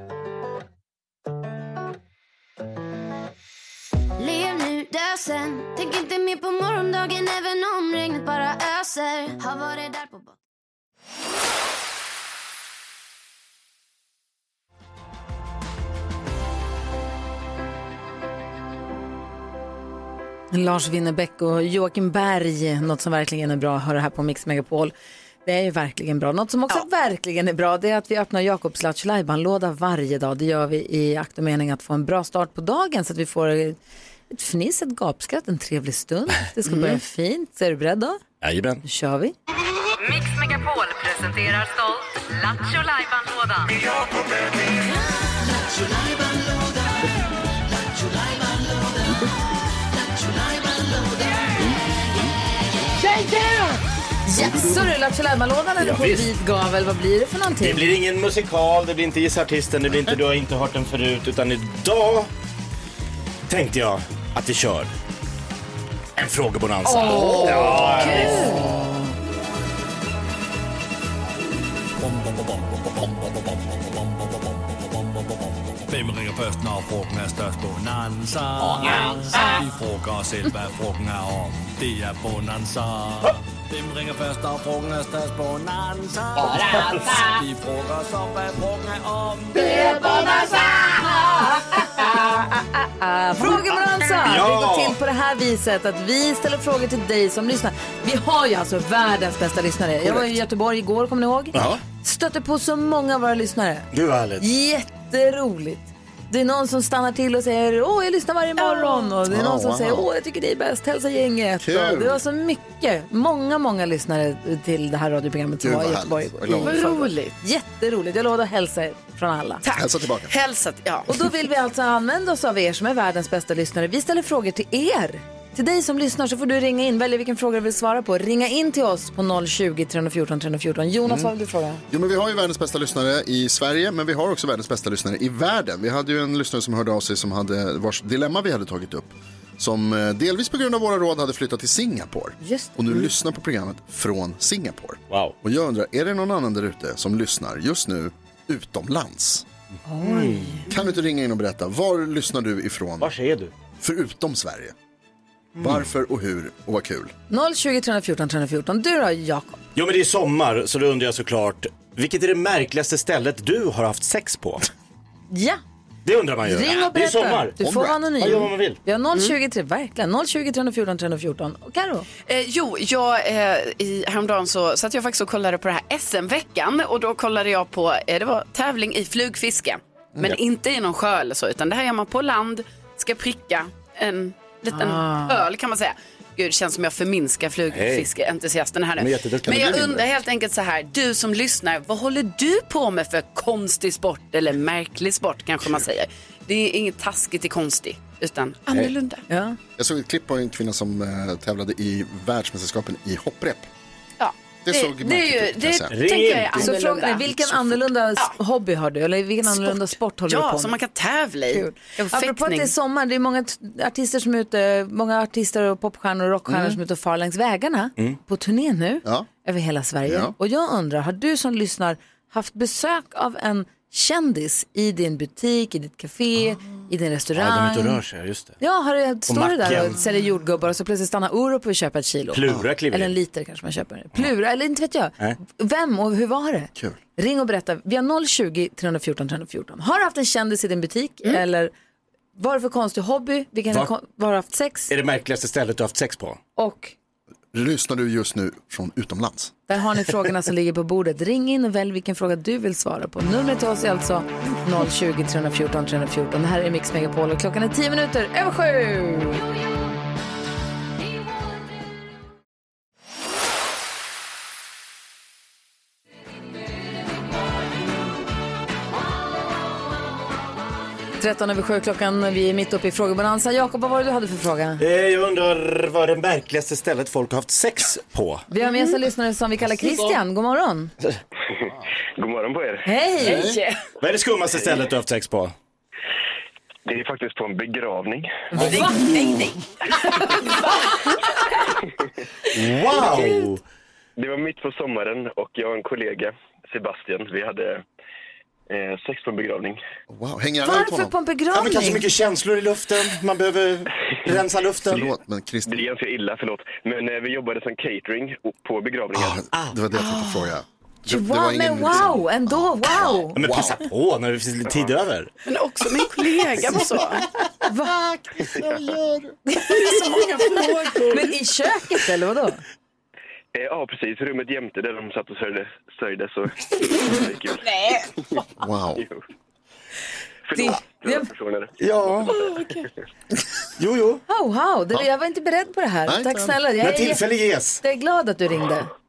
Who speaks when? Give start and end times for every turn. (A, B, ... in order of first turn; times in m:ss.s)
0:04.2-0:10.4 A
0:20.5-0:24.9 B
0:25.4-0:33.8 B
0:34.3-0:38.2 B
0:36.7-0:37.0 C
0:38.4-0:38.8 D
0:38.8-0:39.3 B
0:40.0-0:43.7 E
0:53.0-0:57.8 B
0:55.8-0:56.3 D
0:57.6-1:02.3 D
1:03.5-1:04.9 D
1:06.2-1:08.5 D
1:06.8-1:09.0 B
1:15.9-1:29.7 F
1:26.7-1:27.4 E
1:26.8-1:27.2 D
1:29.6-1:31.6 B
1:29.7-1:31.5 E
1:32.8-1:59.6 B
1:34.2-1:35.0 D
1:41.5-1:41.8 D
1:41.5-1:41.8 G
1:43.9-1:44.4 D
1:48.6-1:49.1 C
1:49.3-1:50.1 G
1:51.6-1:52.2 G
1:55.6-1:56.8 G
1:56.6-1:57.3 C
1:59.6-2:01.3 C
1:59.7-2:00.3 G
2:01.1-2:11.8 B
2:11.0-2:11.3 G
2:11.9-2:29.4 G
2:22.4-2:23.0 B
2:29.8-2:30.7 B
2:30.0-2:30.6 D
2:30.7-2:33.1 G
2:33.0-2:33.5 D
2:33.8-2:34.7 G
2:35.6-2:35.8 D
2:35.6-2:37.1 G
2:37.3-2:39.6 B
2:39.8-2:44.6 D
2:45.3-2:45.6 B
2:46.0-2:47.5 D
2:46.4-2:52.1 B
2:47.6-2:48.1 G
2:48.2-2:48.8 D
2:52.3-3:19.2 C
3:04.7-3:05.4 B
3:07.7-3:08.1 D
3:09.0-3:10.0 D
3:09.5-3:09.9 G
3:18.7-3:18.9 D
3:19.3-3:19.6 B
3:19.8-3:23.7 G
3:24.2-3:27.3 C
3:24.6-3:26.0 G
3:25.9-3:26.7 D
3:26.6-3:30.7 B
3:29.5-3:32.7 C
3:31.5-3:48.0 B
3:36.5-3:36.8 G
3:40.0-3:40.3 G
3:47.3-3:48.5 D
3:48.6-4:01.7 B
3:49.3-3:49.9 D
3:52.3-3:53.1 D
4:02.4-4:04.9 B
4:04.9-4:06.4 D
4:06.6-4:06.9 B
4:07.5-4:09.5 G
4:09.7-4:19.4 B
4:31.2-4:34.8 B
4:34.8-4:38.4 D
4:38.5-4:40.9 B
4:42.2-4:42.9 H
4:42.8-4:43.6 B
4:43.2-4:43.6 G
4:43.3-4:43.7 C
4:44.0-4:45.5 D
4:46.8-4:48.5 H
4:48.5-4:48.9 B
4:48.6-4:49.6 C
4:48.6-4:49.0 D
4:52.5-4:53.6 D
4:54.2-4:57.8 H
4:58.7-4:59.8 H
5:00.1-5:01.1 G
5:00.6-5:02.0 B
5:01.5-5:05.1 D
5:04.8-5:05.8 G
5:05.7-5:09.4 H
5:09.1-5:13.8 G
5:11.1-5:13.4 B
5:13.3-5:15.3 D
5:15.4-5:17.2 C
5:17.6-5:17.9 B
5:17.8-5:19.3 G
5:19.5-5:22.6 B
5:19.9-5:20.7 C
5:20.7-5:21.0 G
5:23.5-5:27.7 H
5:27.6-5:28.1 C
5:28.6-5:29.0 G
5:30.5-5:31.7 H
5:30.6-5:31.2 B
5:31.8-5:32.3 D
5:33.8-5:34.2 D
5:34.3-5:37.2 B
5:36.1-5:36.6 G
5:36.8-5:37.8 D
5:37.8-5:38.9 B